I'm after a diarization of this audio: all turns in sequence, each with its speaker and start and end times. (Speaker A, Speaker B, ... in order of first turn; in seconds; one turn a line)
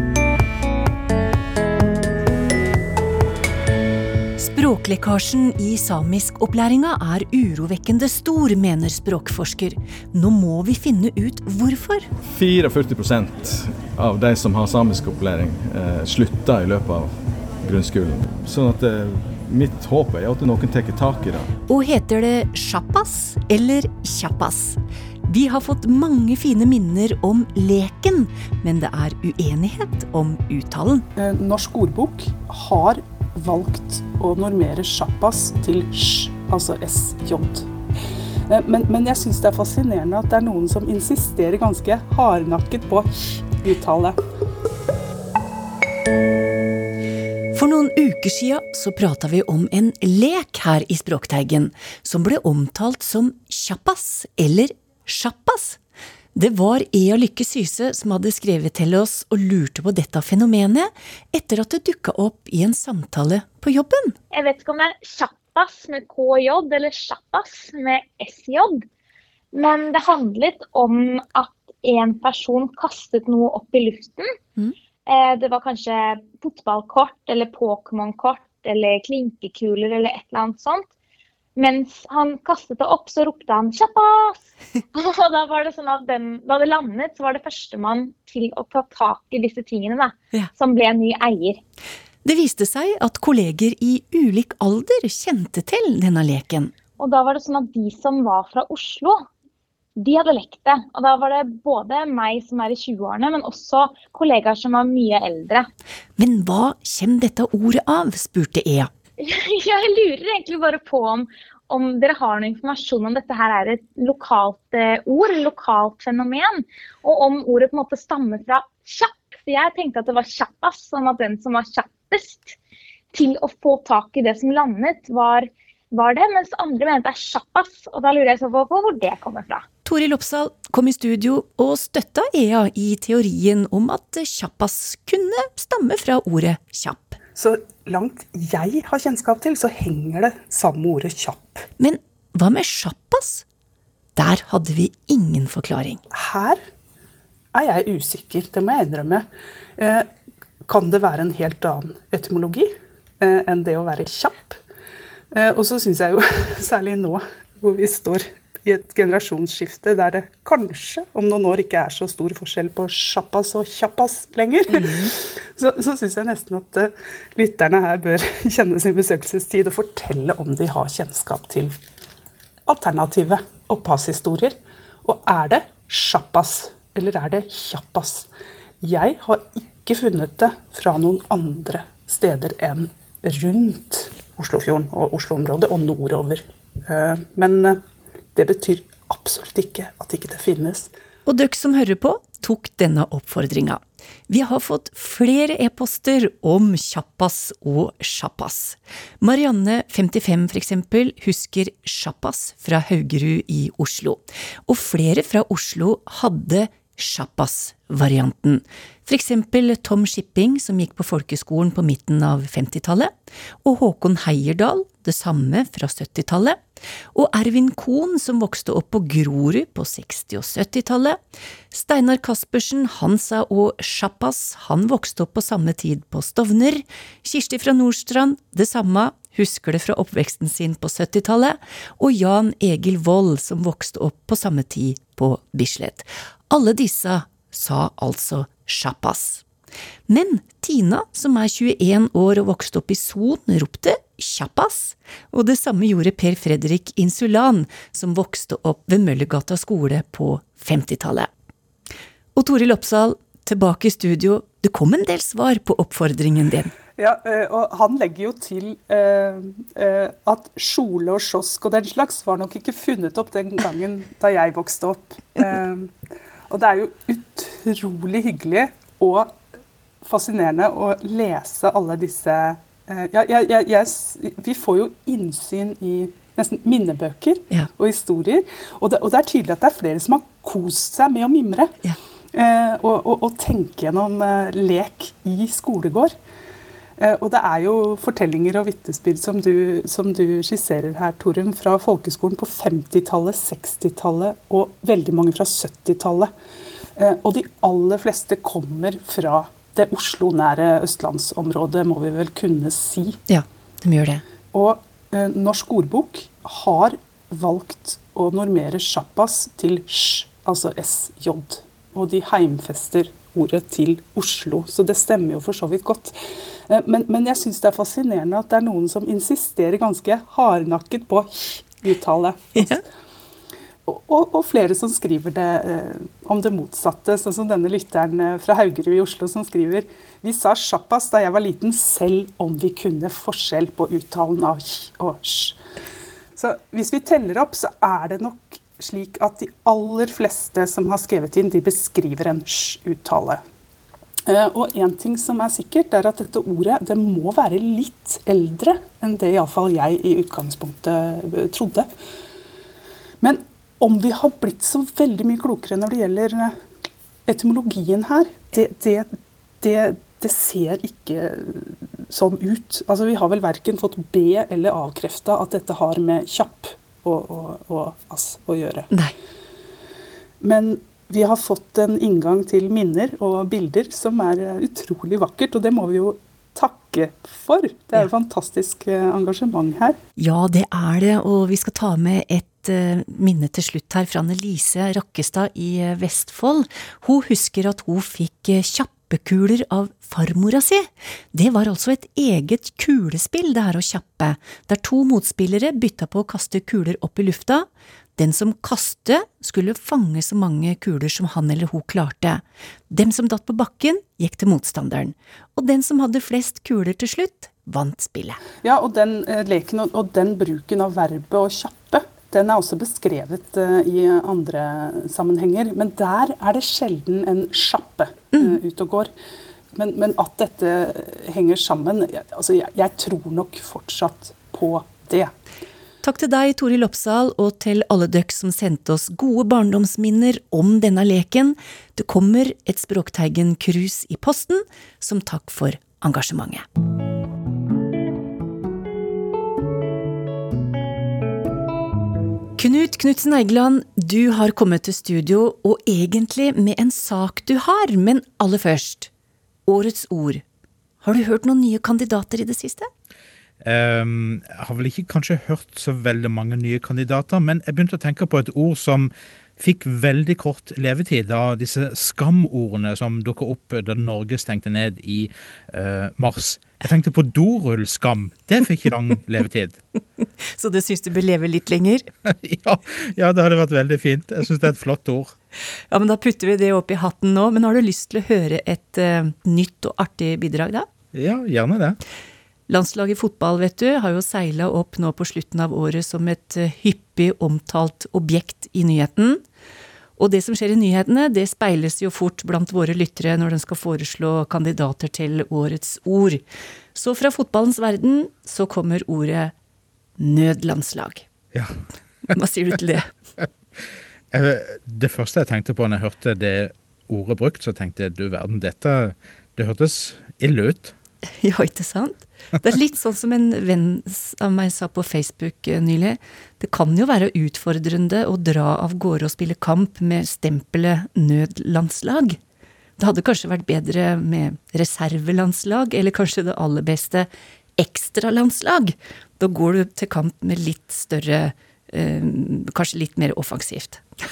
Speaker A: 4.4-12.1
Speaker B: 12.3-17.1
Speaker B: 17.6-21.5
Speaker A: 21.7-24.8
Speaker A: 25.3-31.1
Speaker C: 31.2-37.7
Speaker C: 38.5-44.2
Speaker A: 47.5-55.8
Speaker A: 56.4-64.2
Speaker D: 64.3-68.8
Speaker D: 69.5-74.3
Speaker D: 75.1-80.9
Speaker D: 81.6-91.6
Speaker A: 92.2-96.7
Speaker D: 97.0-99.3
Speaker D: 100.0-105.7
Speaker A: 106.2-108.9
Speaker D: 109.2-122.6
Speaker D: 123.1-129.7
Speaker A: 129.8-137.2
Speaker C: 137.4-141.6
Speaker A: 141.8-143.4
Speaker A: 144.2-146.0
Speaker C: 146.1-146.6
Speaker C: 147.5-149.3
Speaker C: 149.8-150.1
Speaker C: 150.7-154.6
Speaker C: 155.3-171.8
Speaker A: 164.7-165.1
Speaker C: 172.7-178.3
Speaker C: 178.8-187.8
Speaker C: 188.3-190.9
Speaker A: 191.3-213.1
Speaker A: 213.6-216.6
Speaker A: 217.1-221.2
Speaker A: 221.7-239.4
Speaker A: 240.1-251.3
Speaker A: 252.4-256.7
Speaker C: 257.0-265.9
Speaker C: 266.5-269.4
Speaker C: 270.0-281.8
Speaker C: 282.3-286.1
Speaker C: 287.0-296.3
Speaker C: 297.0-303.2
Speaker A: 303.3-304.2
Speaker C: 304.5-322.8
Speaker A: 322.6-322.8
Speaker C: 323.9-335.6
Speaker C: 336.4-343.4
Speaker C: 344.3-351.9
Speaker C: 353.2-356.6
Speaker C: 357.3-359.1
Speaker C: 359.6-368.9
Speaker C: 370.4-380.0
Speaker A: 380.2-408.4
Speaker C: 408.6-419.1
Speaker C: 419.8-425.3
Speaker A: 426.0-436.7
Speaker A: 442.6-449.1
Speaker A: 449.7-450.4
Speaker A: 451.0-452.9
Speaker E: 453.6-469.8
Speaker A: 470.4-472.1
Speaker E: 472.3-475.3
Speaker A: 475.9-480.9
Speaker E: 481.1-482.0
Speaker A: 482.7-489.4
Speaker A: 490.2-496.4
Speaker A: 496.9-499.5
Speaker A: 500.2-501.3
Speaker A: 502.3-503.1
Speaker E: 504.3-510.9
Speaker A: 511.4-522.4
Speaker A: 523.0-534.0